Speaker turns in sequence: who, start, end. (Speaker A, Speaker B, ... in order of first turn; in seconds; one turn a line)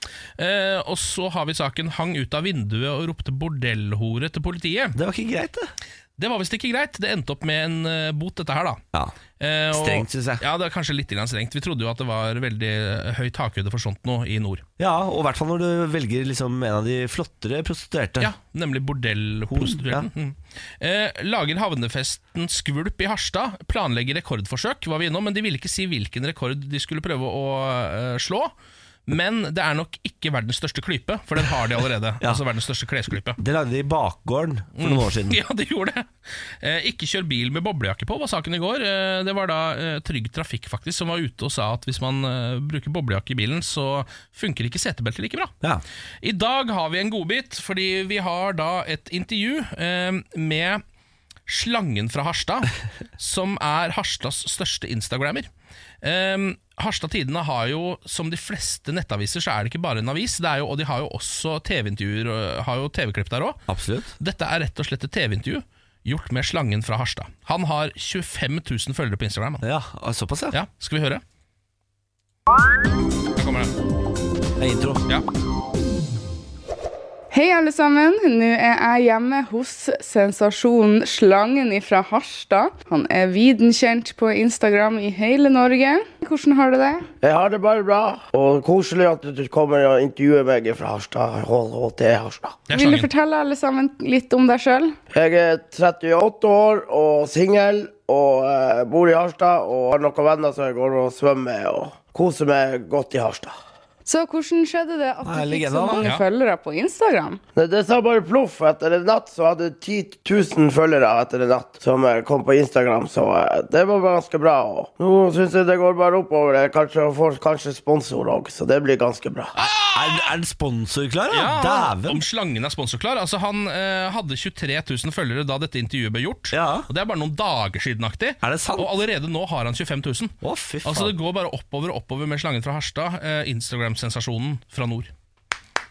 Speaker A: 0.4-5.0
Speaker B: 4.9-5.7
Speaker A: 6.2-8.8
Speaker A: 9.4-14.6
Speaker B: 9.7-10.4
Speaker B: 14.8-18.3
Speaker A: 18.2-28.5
Speaker B: 19.5-20.1
Speaker A: 29.1-33.4
Speaker B: 33.4-35.4
Speaker A: 34.8-45.5
Speaker A: 46.2-50.8
Speaker A: 51.5-55.5
Speaker A: 56.0-63.6
Speaker B: 63.7-64.1
Speaker A: 64.2-69.6
Speaker B: 69.6-70.6
Speaker A: 70.5-71.2
Speaker A: 73.3-73.7
Speaker B: 74.6-75.0
Speaker C: 77.3-87.1
Speaker D: 87.2-92.6
Speaker A: 92.7-93.1
Speaker C: 92.7-95.0
Speaker D: 95.1-103.5
Speaker C: 104.0-107.4
Speaker B: 105.2-106.0
Speaker D: 107.5-119.5
Speaker A: 119.5-120.3
Speaker B: 119.9-122.2
Speaker A: 121.3-135.1
Speaker B: 126.5-126.9
Speaker B: 128.4-129.0
Speaker B: 130.4-131.1